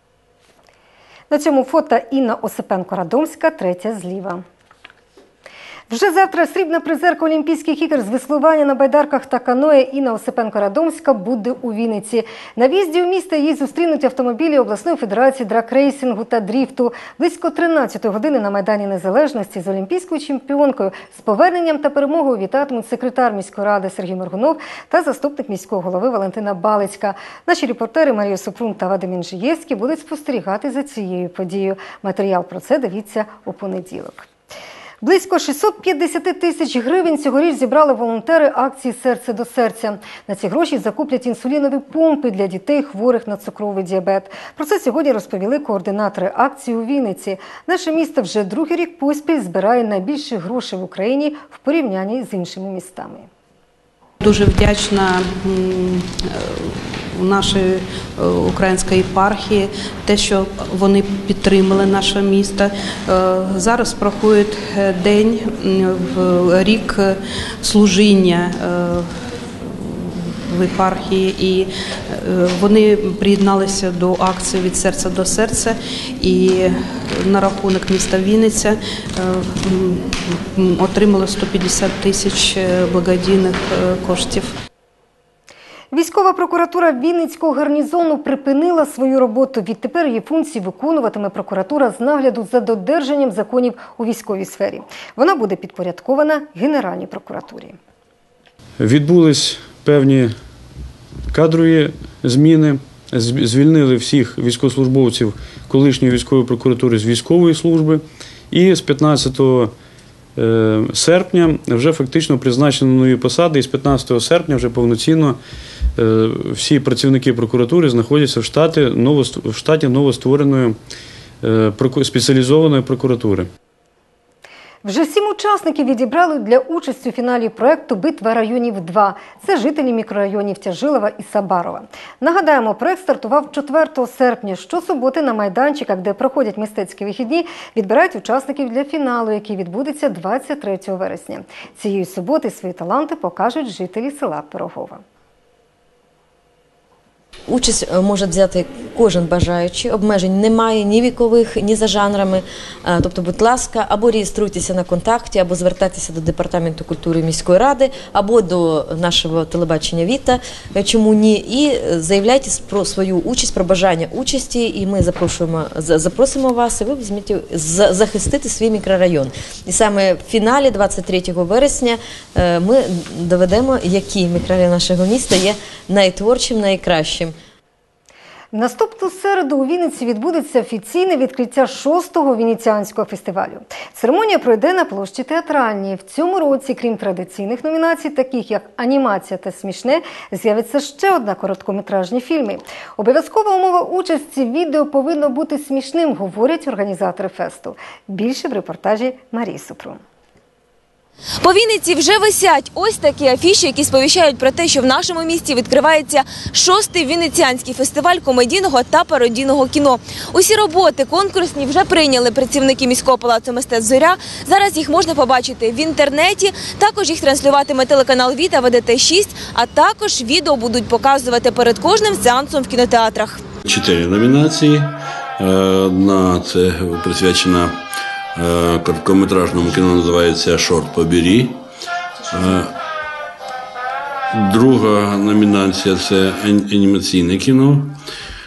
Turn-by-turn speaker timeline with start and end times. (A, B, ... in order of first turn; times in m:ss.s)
0:01.3-0:04.4 A
0:05.9-0:34.3 A
0:35.0-0:53.3 A
0:54.2-1:09.1 B
1:09.6-1:24.5 B
1:25.9-1:37.8 A
1:38.8-1:40.3 C
1:41.3-1:49.7 C
1:50.4-1:55.4 C
1:56.0-2:00.8 C
2:01.4-2:03.5 C
2:04.8-2:25.0 A
2:27.5-2:57.4 D
2:58.5-3:20.0 A
3:21.4-3:43.4 E
3:43.7-3:47.8 F
3:48.4-3:51.6 F
3:52.3-3:52.7 F
3:54.3-3:58.0 F